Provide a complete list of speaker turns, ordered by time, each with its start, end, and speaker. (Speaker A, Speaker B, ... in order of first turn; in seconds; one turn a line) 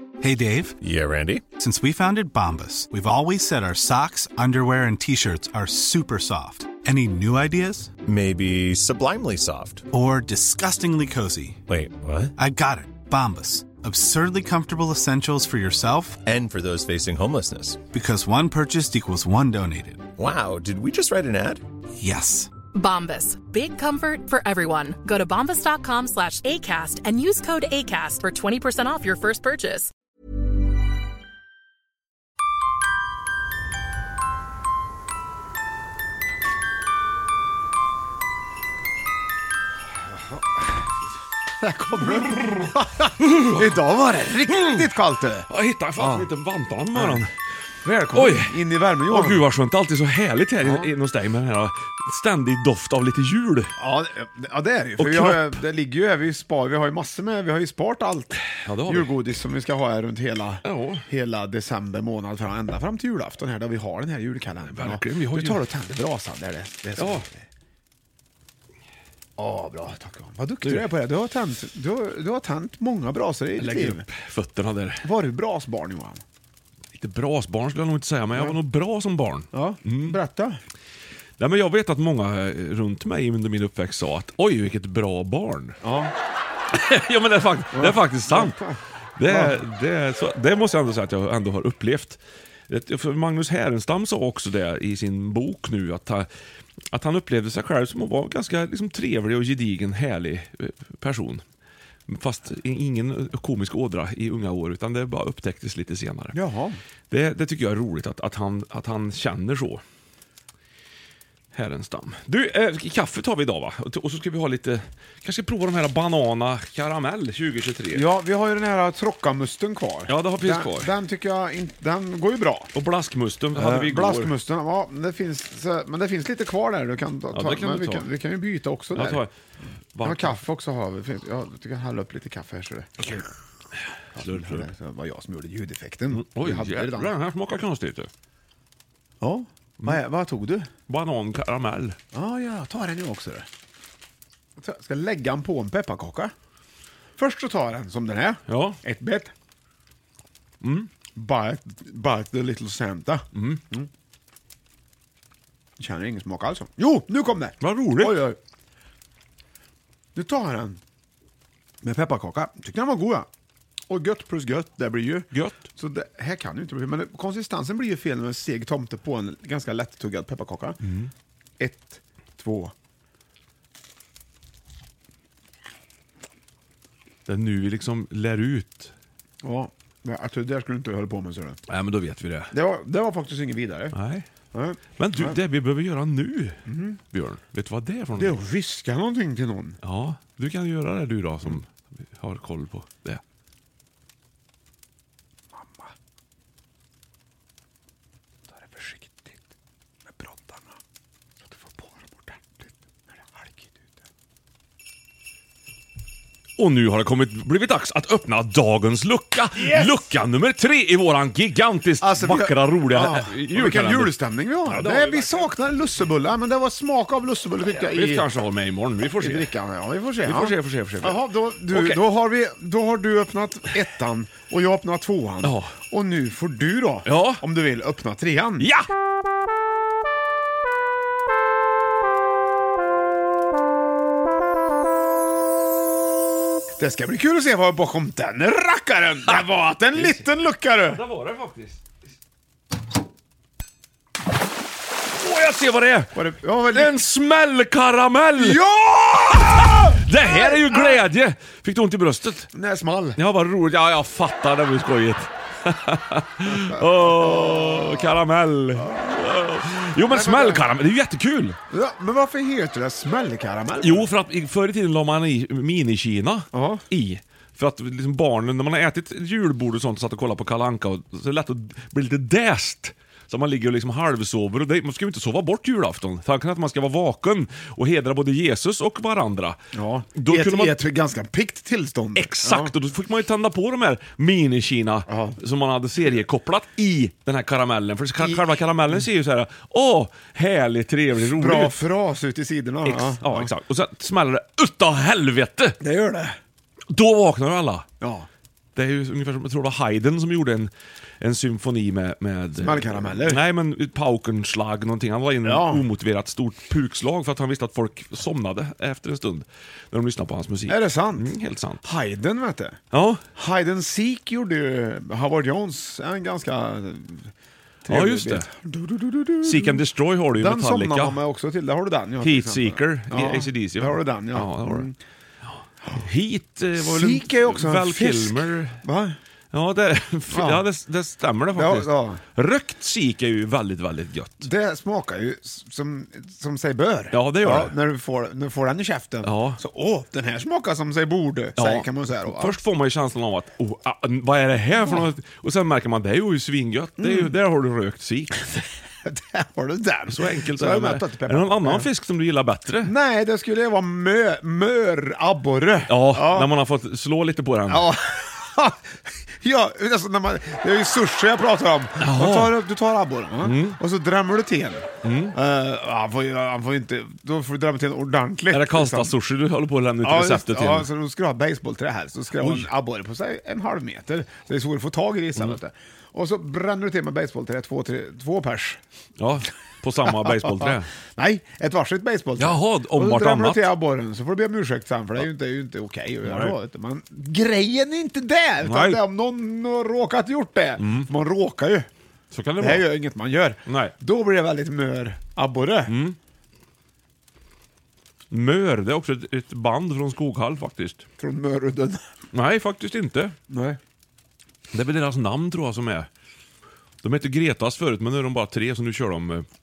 Speaker A: 0.2-0.8
Speaker B: 0.8-1.4
Speaker A: 1.5-8.0
Speaker B: 8.0-9.8
Speaker A: 9.9-11.6
Speaker B: 11.7-12.3
Speaker A: 12.3-16.4
Speaker B: 16.3-17.8
Speaker A: 17.9-20.1
Speaker B: 20.2-21.6
Speaker A: 22.0-22.6
Speaker C: 22.7-29.9
Speaker D: 41.6-46.3
Speaker E: 43.2-43.7
Speaker E: 44.5-44.9
Speaker E: 45.5-47.3
Speaker D: 46.9-47.2
Speaker D: 47.8-49.5
Speaker E: 48.1-48.5
Speaker E: 49.1-53.7
Speaker D: 50.6-50.9
Speaker D: 53.8-67.4
Speaker E: 55.0-55.6
Speaker E: 58.5-59.1
Speaker E: 60.6-61.0
Speaker E: 64.7-65.6
Speaker E: 67.0-67.2
Speaker D: 69.4-74.0
Speaker E: 73.6-75.0
Speaker D: 75.0-76.2
Speaker E: 76.9-80.2
Speaker D: 79.5-80.6
Speaker E: 81.4-85.8
Speaker D: 85.8-86.1
Speaker E: 86.7-88.6
Speaker D: 87.7-89.6
Speaker E: 89.2-96.3
Speaker E: 96.9-101.4
Speaker E: 102.1-106.4
Speaker D: 106.3-106.8
Speaker E: 107.1-109.8
Speaker E: 111.5-118.0
Speaker D: 117.9-122.7
Speaker E: 120.1-120.9
Speaker E: 122.7-124.3
Speaker D: 123.5-129.2
Speaker E: 127.3-128.1
Speaker E: 128.9-129.3
Speaker E: 129.9-130.4
Speaker D: 130.0-133.2
Speaker E: 134.1-134.7
Speaker D: 134.1-137.1
Speaker E: 136.1-138.1
Speaker D: 139.2-140.7
Speaker E: 140.9-142.0
Speaker D: 142.1-143.4
Speaker D: 144.6-146.3
Speaker D: 147.2-149.3
Speaker E: 148.5-148.8
Speaker E: 150.6-150.9
Speaker D: 151.2-153.9
Speaker E: 153.3-153.6
Speaker D: 155.8-158.4
Speaker E: 157.6-158.2
Speaker D: 160.1-160.8
Speaker D: 161.8-163.3
Speaker D: 163.9-170.8
Speaker E: 165.3-165.6
Speaker E: 170.8-171.1
Speaker D: 171.6-172.7
Speaker E: 177.3-178.9
Speaker D: 179.4-181.6
Speaker E: 181.7-182.5
Speaker D: 182.5-183.9
Speaker E: 183.9-184.3
Speaker D: 184.5-185.4
Speaker E: 185.0-186.6
Speaker D: 186.7-187.0
Speaker E: 187.1-188.3
Speaker D: 188.2-189.8
Speaker E: 189.8-193.2
Speaker D: 195.6-195.9
Speaker D: 198.5-199.4
Speaker D: 200.1-200.8
Speaker D: 201.5-204.0
Speaker E: 206.6-214.1
Speaker D: 209.5-210.1
Speaker D: 212.0-218.3
Speaker E: 214.7-215.5
Speaker E: 217.7-219.5
Speaker D: 219.2-228.7
Speaker E: 220.2-222.0
Speaker E: 225.4-225.7
Speaker E: 227.0-227.4
Speaker E: 228.6-228.8
Speaker D: 236.8-241.0
Speaker E: 240.9-241.8
Speaker E: 245.1-246.2
Speaker D: 246.1-246.9
Speaker E: 246.7-248.6
Speaker D: 248.3-251.0
Speaker E: 249.5-252.5
Speaker D: 252.5-253.2
Speaker E: 253.2-261.6
Speaker D: 256.5-258.0
Speaker D: 260.1-260.7
Speaker D: 261.7-264.1
Speaker E: 263.8-279.6
Speaker D: 266.5-266.8
Speaker D: 279.7-282.7
Speaker E: 280.1-280.8
Speaker E: 282.2-291.8
Speaker D: 285.1-285.4
Speaker D: 288.2-288.6
Speaker D: 291.2-293.5
Speaker E: 292.9-295.8
Speaker D: 295.8-296.4
Speaker E: 296.9-297.9
Speaker D: 298.0-298.3
Speaker E: 298.8-311.8
Speaker D: 302.6-303.4
Speaker D: 305.4-305.9
Speaker D: 310.7-311.3
Speaker D: 311.8-312.8
Speaker E: 312.9-313.2
Speaker D: 313.3-317.3
Speaker D: 317.8-319.8
Speaker E: 317.9-318.5
Speaker E: 319.4-321.2
Speaker D: 320.3-324.9
Speaker E: 322.2-324.9
Speaker E: 325.9-328.8
Speaker D: 326.8-329.2
Speaker E: 329.5-334.4
Speaker D: 330.3-330.6
Speaker D: 331.5-332.2
Speaker D: 334.4-342.6
Speaker E: 337.1-337.7
Speaker E: 339.2-339.6
Speaker E: 341.6-348.5
Speaker D: 347.0-347.3
Speaker D: 349.0-351.9
Speaker E: 350.1-352.9
Speaker D: 352.8-356.5
Speaker E: 355.9-357.9
Speaker D: 357.7-369.1
Speaker E: 362.0-362.6
Speaker E: 363.4-363.8
Speaker E: 365.0-365.4
Speaker E: 368.5-370.9
Speaker D: 370.0-378.8
Speaker E: 372.3-372.7
Speaker E: 379.2-380.9
Speaker D: 380.1-391.9
Speaker E: 382.4-383.7
Speaker E: 386.2-386.5
Speaker E: 388.6-389.0
Speaker E: 390.8-391.1
Speaker E: 392.3-392.9
Speaker D: 392.6-395.9
Speaker E: 393.6-393.9
Speaker E: 395.9-396.1
Speaker E: 398.3-401.0
Speaker D: 401.2-402.0
Speaker E: 402.3-403.3
Speaker D: 403.5-403.8
Speaker E: 404.7-406.1
Speaker E: 407.0-409.4